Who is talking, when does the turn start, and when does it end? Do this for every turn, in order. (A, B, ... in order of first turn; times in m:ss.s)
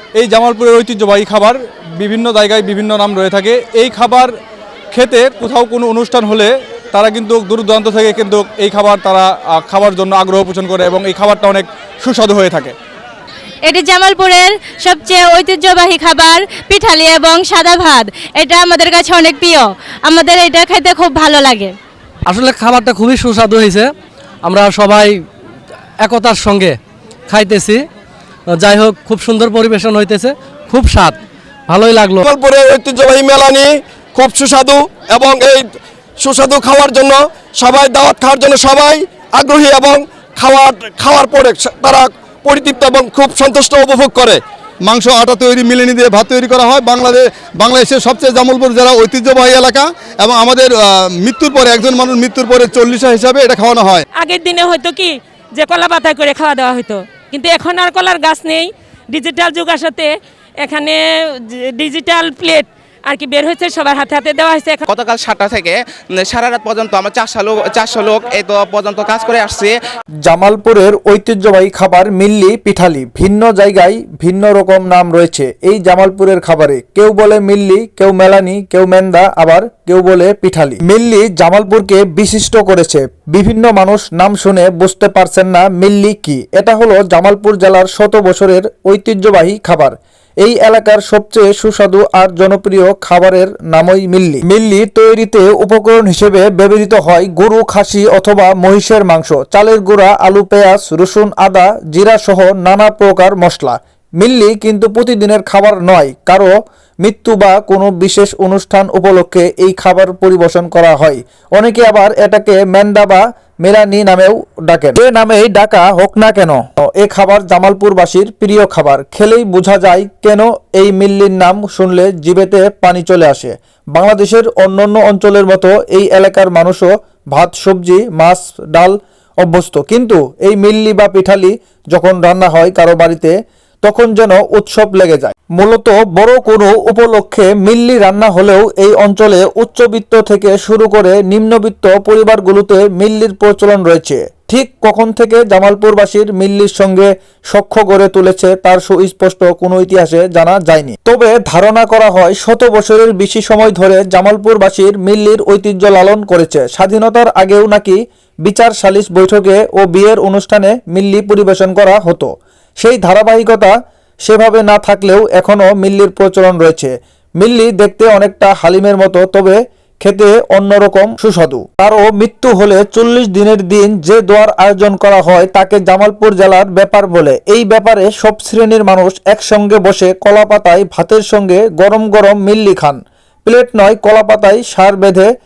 0:00.2-0:04.3 A
0:04.9-0:12.7 A
0:13.6-0:21.7 B
0:22.3-0:23.9 C
0:24.4-0:25.2 C
0:26.0-0:26.8 C
0:27.3-0:27.8 C
0:28.5-0:32.3 C
0:32.2-0:35.7 D
0:36.2-0:44.4 D
0:44.8-0:54.0 E
0:54.2-1:04.8 F
1:04.9-1:09.8 G
1:10.3-3:05.3 H